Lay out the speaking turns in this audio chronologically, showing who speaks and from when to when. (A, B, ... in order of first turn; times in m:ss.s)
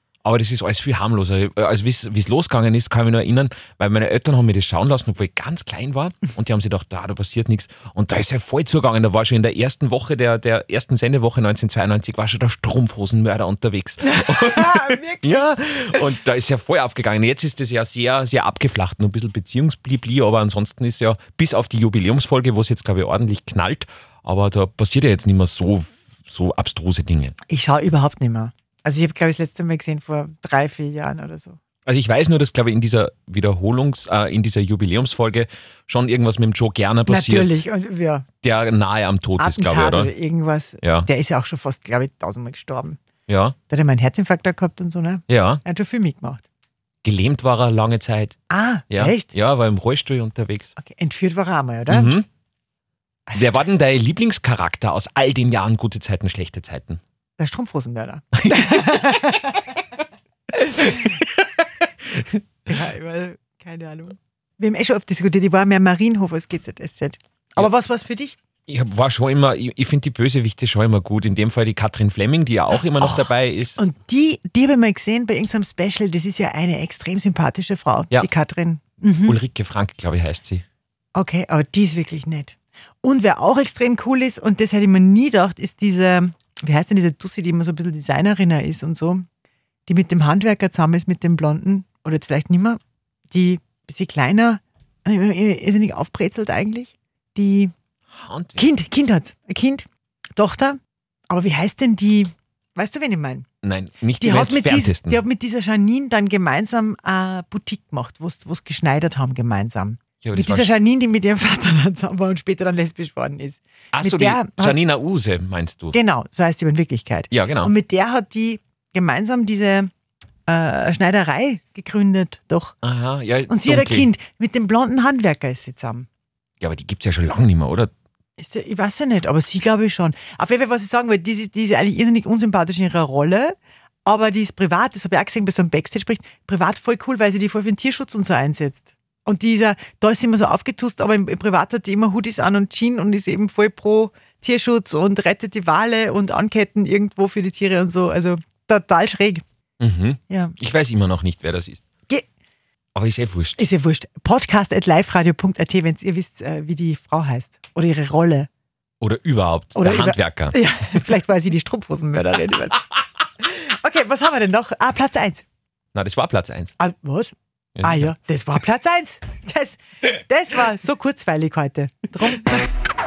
0:00.2-0:27.3 A
0:14.1-0:15.4 B
0:27.5-0:31.6 B
0:31.8-0:37.6 A
0:37.1-0:38.2 B
0:38.4-0:40.1 A
0:39.4-0:43.0 B
0:40.8-0:41.1 A
0:43.3-0:43.6 A
0:43.7-0:46.4 B
0:45.3-0:45.6 A
0:47.0-0:48.4 A
0:48.5-0:49.3 B
0:48.9-0:50.7 A
0:50.8-0:52.1 B
0:51.9-0:52.2 A
0:53.3-0:53.6 B
0:53.3-0:57.0 A
0:57.4-0:59.6 B
0:58.5-0:59.0 A
1:00.7-1:01.2 B
1:00.8-1:01.1 A
1:02.6-1:08.4 B
1:08.7-1:13.8 A
1:13.0-1:19.4 B
1:19.2-1:20.6 A
1:21.1-1:29.2 B
1:29.9-1:32.8 B
1:33.3-1:37.7 B
1:38.1-1:38.7 A
1:38.6-1:39.8 B
1:40.4-1:40.8 B
1:41.3-1:43.4 B
1:43.6-1:45.2 A
1:44.2-1:54.8 B
1:50.2-1:50.7 A
1:53.9-1:56.0 A
1:55.9-1:59.9 B
1:57.3-1:57.7 A
2:00.5-2:02.8 B
2:02.8-2:04.1 A
2:03.5-2:06.1 B
2:06.6-2:07.9 A
2:08.4-2:29.4 B
2:29.8-2:31.8 A
2:30.3-2:30.5 B
2:32.9-2:33.6 A
2:33.6-2:38.5 B
2:39.0-2:40.6 A
2:39.8-2:42.8 B
2:43.4-2:45.4 B
2:45.9-2:46.7 A
2:46.8-2:52.6 B
2:47.8-2:48.1 A